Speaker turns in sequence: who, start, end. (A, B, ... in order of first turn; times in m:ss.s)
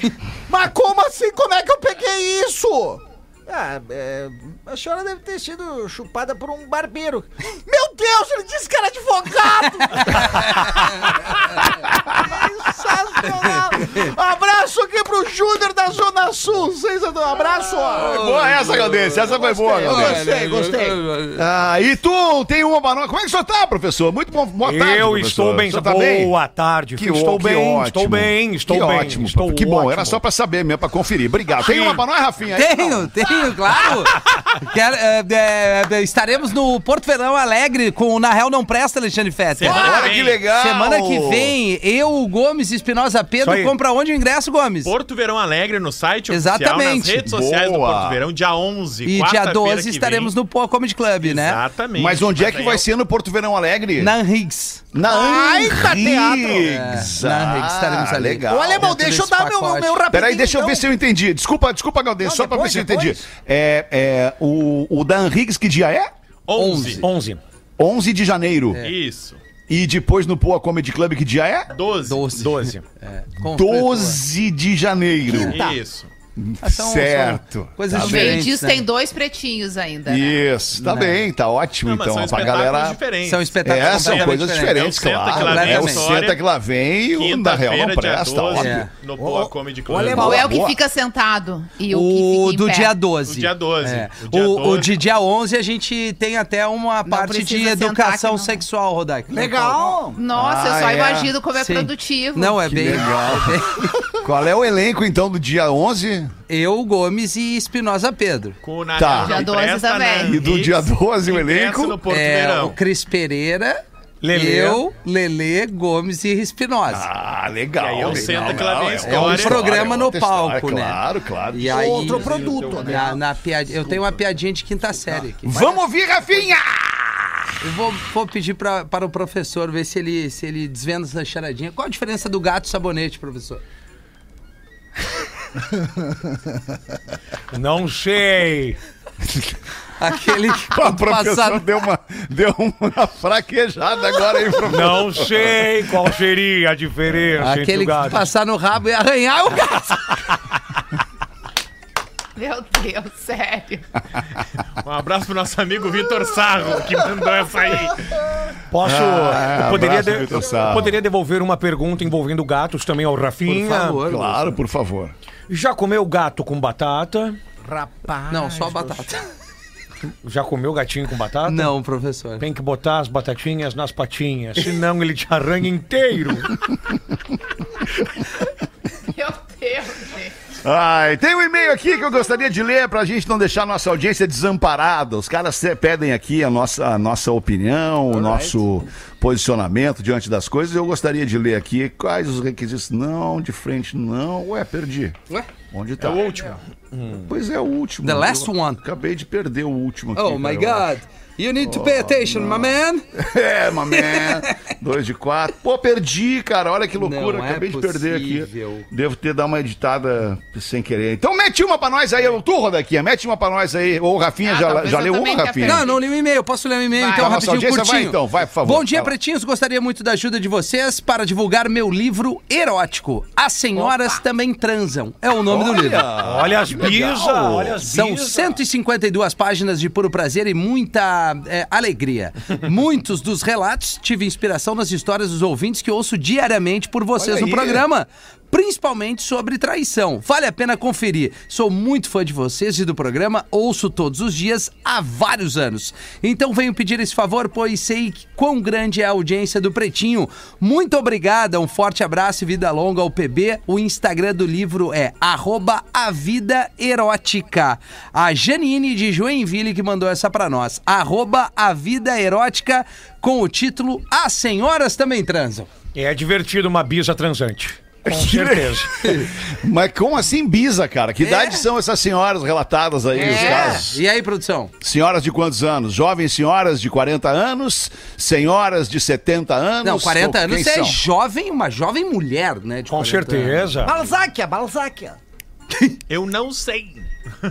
0:00.5-0:21.0 A
0:10.1-0:11.3 B
0:13.4-0:14.0 B
0:17.9-0:20.2 C
0:18.0-0:19.1 B
0:19.8-0:21.4 B
0:21.4-0:26.3 C
0:24.6-0:30.2 D
0:27.0-0:33.1 C
0:31.6-0:32.0 D
0:32.5-0:44.9 B
0:39.5-0:40.4 E
0:39.6-0:41.5 C
0:43.4-0:43.7 D
0:44.8-0:50.3 E
0:46.3-0:47.2 B
0:47.2-0:48.2 C
0:49.0-0:51.6 B
0:51.2-0:52.8 E
0:52.0-0:54.1 C
0:54.0-0:54.8 B
0:54.9-0:58.9 C
0:55.0-0:56.7 A
0:56.6-1:00.0 B
0:58.5-1:00.9 A
1:00.1-1:06.1 C
1:02.2-1:03.2 A
1:06.5-1:07.0 E
1:06.5-1:07.1 B
1:07.0-1:07.4 D
1:07.8-1:08.8 C
1:08.8-1:09.4 E
1:09.7-1:11.7 C
1:11.7-1:12.3 E
1:12.0-1:14.2 B
1:12.3-1:12.8 D
1:13.4-1:15.6 C
1:15.3-1:15.8 A
1:15.3-1:16.1 E
1:16.4-1:18.5 C
1:16.6-1:18.8 B
1:17.9-1:20.4 F
1:20.0-1:23.0 C
1:20.8-1:21.2 B
1:21.8-1:26.4 E
1:23.2-1:26.1 B
1:23.6-1:28.8 C
1:27.1-1:30.4 E
1:28.5-1:28.9 B
1:29.2-1:30.4 A
1:29.9-1:30.8 C
1:30.1-1:32.9 F
1:31.9-1:40.0 B
1:33.2-1:35.0 E
1:37.0-1:38.6 F
1:39.3-1:40.2 A
1:40.1-1:42.6 F
1:40.3-1:41.3 C
1:41.6-1:44.0 B
1:42.6-1:43.6 C
1:44.2-1:46.3 C
1:46.5-1:48.6 B
1:48.6-1:52.8 E
1:49.0-1:49.5 C
1:49.1-1:50.4 F
1:50.2-1:52.0 C
1:52.1-1:57.1 B
1:54.2-1:54.8 D
1:56.9-2:02.3 C
1:57.8-1:59.8 E
1:58.1-2:01.0 B
2:01.5-2:05.7 B
2:01.6-2:03.2 A
2:05.4-2:07.4 C
2:07.6-2:13.6 B
2:17.5-2:18.8 D
2:19.3-2:19.5 C
2:20.0-2:21.6 B
2:20.7-2:25.8 C
2:24.7-2:28.3 D
2:27.4-2:30.1 B
2:32.4-2:33.8 F
2:34.8-2:38.1 E
2:38.7-2:44.0 D
2:38.8-2:40.9 C
2:43.4-2:44.5 B
2:44.0-2:45.1 C
2:45.5-2:47.4 D
2:47.6-2:49.2 A
2:48.3-2:49.2 B
2:50.2-2:51.7 D
2:51.4-2:52.4 B
2:52.4-2:56.6 D
2:59.1-3:00.3 F
3:00.6-3:15.2 C
3:08.2-3:08.5 B
3:15.7-3:16.2 C
3:16.0-3:16.6 E
3:17.2-3:20.9 C
3:18.0-3:18.8 B
3:20.1-3:23.0 B
3:21.6-3:35.9 C
3:23.9-3:24.6 B
3:27.0-3:28.9 B
3:34.4-3:36.0 F
3:35.6-3:46.0 B
3:36.9-3:37.3 F
3:37.1-3:39.1 C
3:43.8-3:44.2 F
3:45.4-3:47.8 C
3:46.2-3:48.6 D
3:47.8-4:25.7 B
3:57.2-3:57.8 C
4:25.9-4:29.3 D
4:28.0-4:34.0 C
4:29.0-4:29.3 B
4:31.2-4:31.6 B
4:33.1-4:34.7 B
4:33.1-4:33.8 A
4:34.8-4:41.0 C
4:39.8-4:43.9 B
4:42.9-4:44.0 D
4:43.8-4:45.2 A
4:46.1-4:47.1 E